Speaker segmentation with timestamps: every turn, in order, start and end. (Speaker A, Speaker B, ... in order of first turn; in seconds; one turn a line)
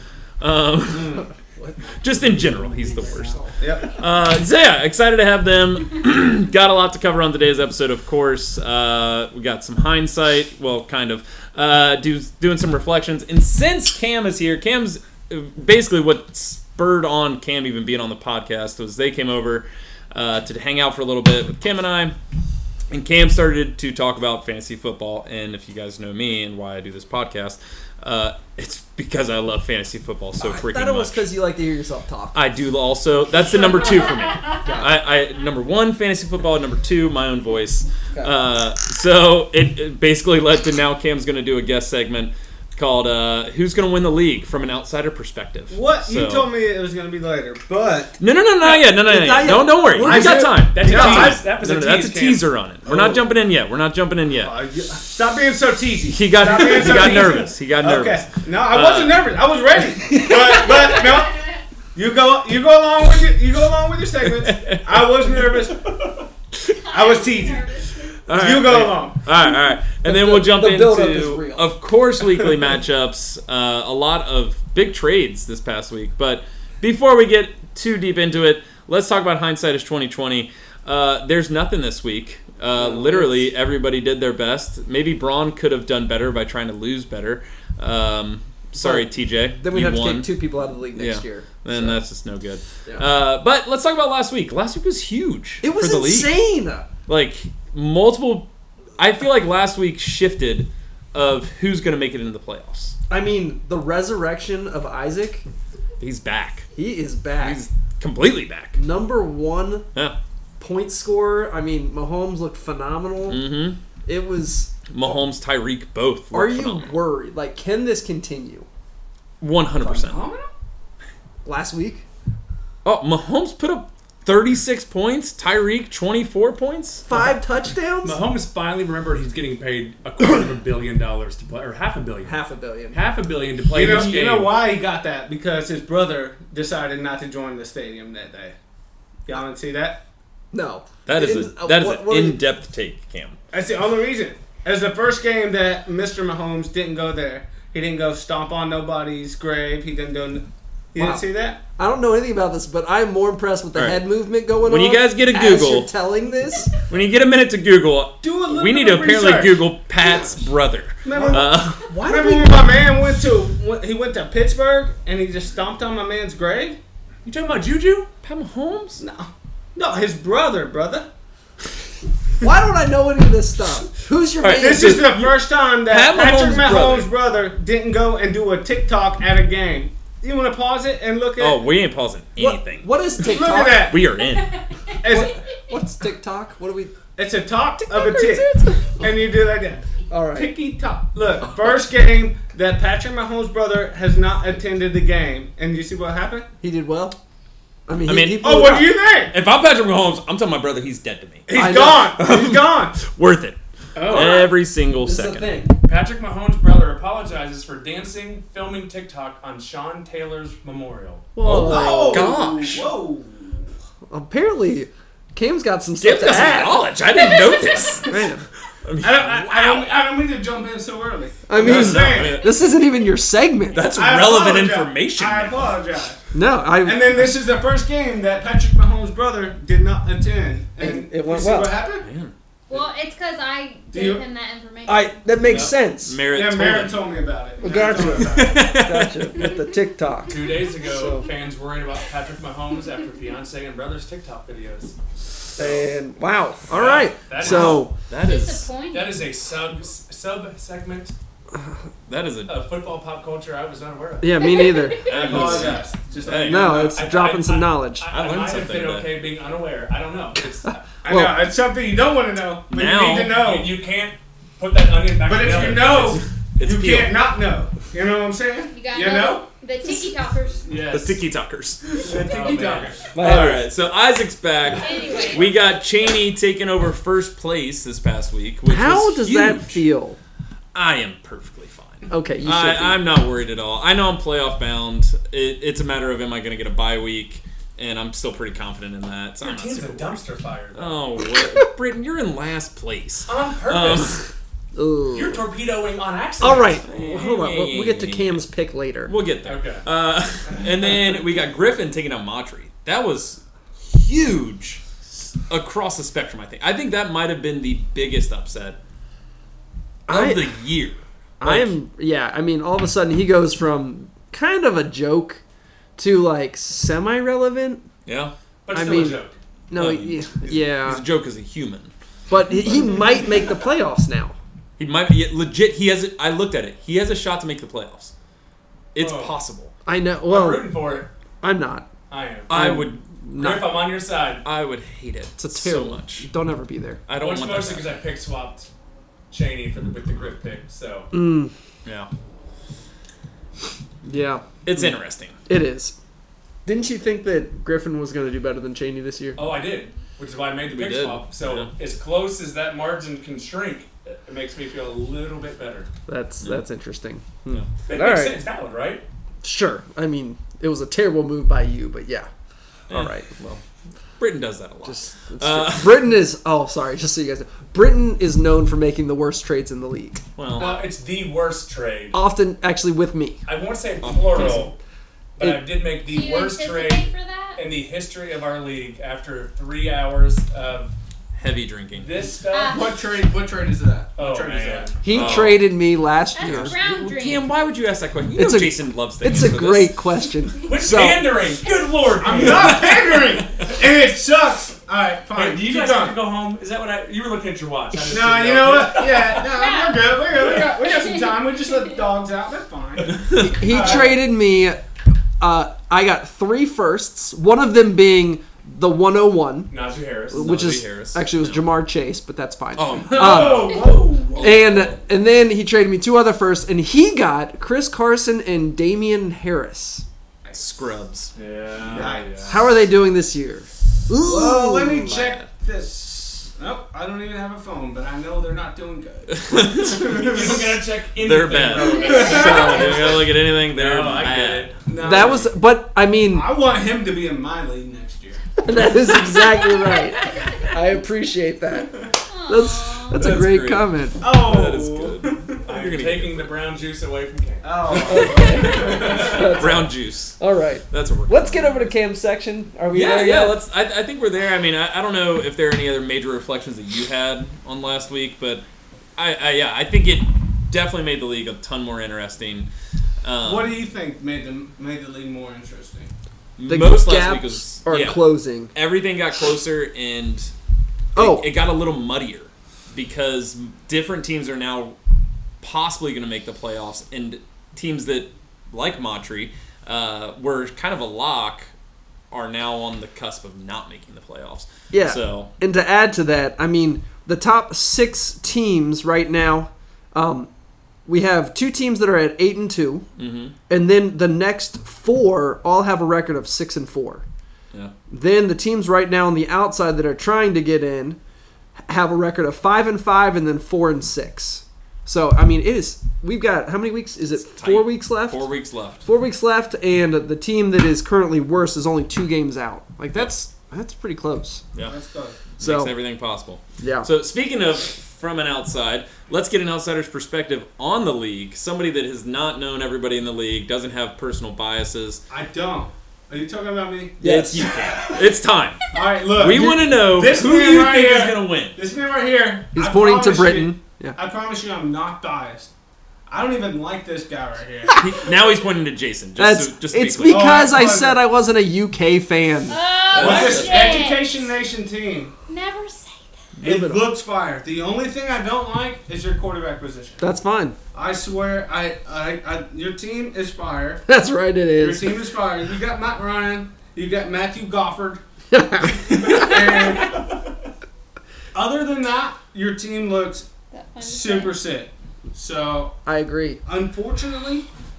Speaker A: 0.4-1.2
Speaker B: 1.6-3.6
Speaker A: 2.0-22.2
Speaker C: 3.6-3.9
Speaker A: 22.9-31.3
Speaker B: 30.4-32.4
Speaker A: 32.3-46.5
Speaker D: 33.6-34.6
Speaker B: 34.6-35.0
Speaker C: 45.7-48.2
Speaker A: 48.2-54.5
Speaker B: 48.6-50.7
Speaker C: 50.0-51.4
Speaker E: 50.6-52.5
Speaker C: 52.9-53.3
Speaker C: 54.4-61.4
Speaker A: 56.1-59.3
Speaker E: 56.6-57.3
Speaker A: 60.0-60.7
Speaker D: 60.7-61.6
Speaker C: 61.9-66.0
Speaker A: 64.3-65.5
Speaker D: 66.7-68.3
Speaker C: 66.9-67.7
Speaker A: 68.3-90.3
Speaker C: 68.3-69.2
Speaker B: 69.9-71.8
Speaker B: 82.8-83.5
Speaker B: 88.8-92.0
Speaker A: 90.9-96.3
Speaker B: 95.6-96.9
Speaker A: 97.1-103.0
Speaker B: 103.1-105.4
Speaker A: 106.0-106.7
Speaker B: 106.7-107.6
Speaker A: 107.4-108.8
Speaker B: 108.8-109.9
Speaker B: 110.6-113.4
Speaker A: 113.3-113.8
Speaker B: 114.1-115.1
Speaker A: 114.9-117.0
Speaker B: 116.3-118.7
Speaker A: 119.4-120.2
Speaker B: 119.8-120.1
Speaker C: 120.0-120.5
Speaker B: 121.5-122.0
Speaker A: 122.8-127.0
Speaker B: 127.1-128.2
Speaker E: 128.0-132.4
Speaker B: 132.2-133.0
Speaker E: 132.9-134.6
Speaker C: 133.7-138.6
Speaker A: 133.8-134.1
Speaker C: 139.3-140.0
Speaker B: 140.5-142.4
Speaker A: 141.1-143.4
Speaker C: 143.5-151.6
Speaker B: 150.9-151.2
Speaker B: 151.8-156.7
Speaker A: 153.8-154.1
Speaker A: 154.6-155.9
Speaker A: 156.7-162.0
Speaker C: 158.2-159.6
Speaker C: 161.1-166.8
Speaker B: 161.1-162.6
Speaker E: 162.2-162.5
Speaker E: 167.2-168.1
Speaker A: 168.2-169.0
Speaker C: 169.0-171.1
Speaker B: 172.4-175.1
Speaker A: 174.4-177.1
Speaker C: 174.5-181.7
Speaker A: 181.4-184.6
Speaker B: 182.4-184.0
Speaker C: 183.2-184.0
Speaker D: 184.3-185.3
Speaker C: 185.0-185.4
Speaker B: 185.1-187.0
Speaker C: 187.2-196.5
Speaker B: 187.8-189.0
Speaker B: 190.1-190.5
Speaker B: 196.6-197.2
Speaker B: 197.9-199.0
Speaker A: 198.1-198.7
Speaker C: 198.4-199.3
Speaker A: 199.3-205.6
Speaker C: 201.5-203.0
Speaker B: 201.5-202.3
Speaker E: 203.9-204.4
Speaker C: 204.0-204.5
Speaker B: 205.0-205.8
Speaker E: 205.8-211.3
Speaker B: 211.4-212.3
Speaker A: 211.4-212.9
Speaker C: 211.6-213.7
Speaker B: 214.1-216.8
Speaker A: 216.0-218.2
Speaker B: 218.0-218.4
Speaker A: 218.8-219.9
Speaker C: 219.0-222.4
Speaker B: 221.5-223.9
Speaker A: 221.6-222.6
Speaker A: 223.7-225.8
Speaker C: 223.9-226.3
Speaker B: 226.3-227.1
Speaker C: 226.8-232.1
Speaker B: 230.8-231.8
Speaker A: 232.0-232.3
Speaker D: 232.7-235.2
Speaker C: 233.9-234.2
Speaker B: 234.9-236.2
Speaker A: 235.5-237.1
Speaker C: 236.3-238.7
Speaker B: 237.6-241.2
Speaker A: 238.1-239.3
Speaker E: 240.3-245.0
Speaker B: 245.6-247.9
Speaker E: 245.6-245.8
Speaker E: 246.7-247.9
Speaker A: 247.4-248.7
Speaker D: 248.1-249.2
Speaker E: 248.9-251.1
Speaker A: 252.1-252.5
Speaker E: 252.5-254.6
Speaker B: 254.2-255.8
Speaker D: 254.4-255.3
Speaker A: 255.1-256.8
Speaker C: 255.1-257.0
Speaker E: 255.2-255.8
Speaker B: 256.4-258.1
Speaker E: 256.9-260.9
Speaker A: 258.1-259.1
Speaker B: 260.6-261.4
Speaker C: 261.0-263.8
Speaker A: 262.7-263.5
Speaker E: 263.4-266.2
Speaker C: 265.2-270.0
Speaker A: 265.9-267.2
Speaker D: 268.7-270.8
Speaker C: 270.7-271.2
Speaker A: 270.9-271.8
Speaker C: 271.8-273.4
Speaker E: 272.1-273.0
Speaker B: 273.1-273.6
Speaker A: 273.1-279.8
Speaker D: 274.7-275.5
Speaker B: 278.7-280.2
Speaker A: 280.7-290.2
Speaker B: 282.1-283.0
Speaker E: 289.4-291.0
Speaker A: 290.7-294.3
Speaker E: 293.3-294.2
Speaker B: 294.8-295.4
Speaker E: 295.1-296.8
Speaker B: 296.4-299.1
Speaker A: 296.8-298.4
Speaker A: 299.1-308.8
Speaker E: 299.4-299.9
Speaker B: 310.1-310.6
Speaker A: 310.1-311.8
Speaker B: 311.4-315.4
Speaker B: 316.0-317.9
Speaker A: 318.1-318.3
Speaker E: 318.7-319.4
Speaker B: 318.7-321.0
Speaker A: 319.7-321.9
Speaker B: 322.3-324.4
Speaker A: 324.8-328.1
Speaker A: 328.9-329.7
Speaker E: 329.0-329.4
Speaker B: 329.9-330.8
Speaker E: 330.3-331.1
Speaker B: 331.4-331.9
Speaker E: 332.1-332.6
Speaker A: 332.5-333.7
Speaker B: 332.5-333.7
Speaker E: 333.4-334.4
Speaker A: 334.4-336.3
Speaker B: 335.4-337.0
Speaker A: 337.1-337.9
Speaker E: 337.2-338.7
Speaker E: 339.3-341.1
Speaker B: 341.1-341.5
Speaker B: 344.0-345.9
Speaker A: 344.6-345.4
Speaker B: 346.6-349.4
Speaker E: 349.4-355.9
Speaker A: 350.7-351.7
Speaker B: 356.1-358.4
Speaker E: 357.9-359.0
Speaker B: 359.4-362.3
Speaker A: 362.9-363.6
Speaker B: 362.9-363.3
Speaker A: 364.2-366.1
Speaker B: 364.8-370.2
Speaker A: 370.4-370.7
Speaker E: 370.6-372.2
Speaker D: 370.6-370.9
Speaker B: 372.1-373.4
Speaker E: 373.5-374.8
Speaker A: 374.0-374.7
Speaker E: 375.4-380.9
Speaker B: 375.4-375.6
Speaker D: 376.1-377.6
Speaker A: 381.4-382.1
Speaker E: 382.0-382.9
Speaker D: 382.5-383.0
Speaker C: 382.7-385.0
Speaker E: 384.2-385.0
Speaker B: 385.0-386.8
Speaker A: 385.1-385.7
Speaker D: 386.3-387.5
Speaker A: 386.4-390.0
Speaker B: 388.4-391.4
Speaker E: 390.7-393.1
Speaker C: 392.2-396.2
Speaker A: 392.5-393.1
Speaker E: 395.3-399.4
Speaker C: 398.1-404.2
Speaker D: 399.4-402.0
Speaker A: 403.1-403.8
Speaker B: 403.3-404.8
Speaker B: 405.4-409.7
Speaker E: 409.7-410.5
Speaker B: 410.3-413.8
Speaker A: 410.3-411.7
Speaker A: 412.8-415.0
Speaker C: 413.1-414.6
Speaker E: 413.2-413.7
Speaker B: 414.4-420.1
Speaker A: 420.5-421.3
Speaker E: 421.4-422.6
Speaker A: 421.9-422.1
Speaker C: 421.9-422.6
Speaker B: 422.5-425.1
Speaker C: 424.2-430.8
Speaker A: 424.9-425.5
Speaker A: 429.3-430.5
Speaker E: 430.1-434.8
Speaker A: 431.2-435.4
Speaker C: 432.0-433.0
Speaker D: 432.0-432.6
Speaker B: 432.2-433.0
Speaker C: 434.9-435.5
Speaker B: 435.0-436.5
Speaker C: 436.3-438.4
Speaker B: 438.6-444.2
Speaker D: 439.7-440.7
Speaker D: 442.3-443.3
Speaker A: 443.1-446.5
Speaker C: 444.2-445.6
Speaker E: 445.6-448.6
Speaker C: 447.6-449.6
Speaker B: 448.0-453.6
Speaker A: 449.1-451.9
Speaker A: 452.9-458.6
Speaker A: 459.2-462.7
Speaker A: 463.2-463.7
Speaker C: 463.4-466.1
Speaker A: 466.6-470.5
Speaker B: 466.7-468.7
Speaker B: 471.1-471.5
Speaker A: 471.1-475.0
Speaker A: 475.6-481.7
Speaker A: 482.3-485.5
Speaker B: 484.9-490.5
Speaker B: 491.1-493.1
Speaker A: 493.2-493.6
Speaker B: 493.7-497.2
Speaker B: 498.1-501.2
Speaker B: 501.9-508.5
Speaker A: 507.6-509.1
Speaker B: 509.0-514.6
Speaker C: 514.8-515.4
Speaker A: 515.6-525.2
Speaker B: 515.6-516.0
Speaker B: 516.8-517.1
Speaker C: 525.3-528.2
Speaker B: 527.2-528.0
Speaker A: 527.2-531.8
Speaker C: 528.9-535.7
Speaker B: 532.7-534.2
Speaker C: 536.3-538.0
Speaker A: 538.0-540.6
Speaker B: 539.4-542.8
Speaker C: 540.2-541.2
Speaker D: 542.7-544.5
Speaker A: 543.1-544.1
Speaker C: 543.1-545.3
Speaker D: 545.5-546.5
Speaker B: 546.6-547.1
Speaker C: 546.6-550.3
Speaker B: 550.2-550.8
Speaker C: 550.9-554.0
Speaker B: 554.1-555.3
Speaker C: 554.8-558.2
Speaker B: 558.5-559.8
Speaker C: 559.0-560.3
Speaker C: 561.5-563.5
Speaker D: 563.7-564.6
Speaker C: 564.0-566.0
Speaker B: 566.1-566.6
Speaker C: 566.6-567.7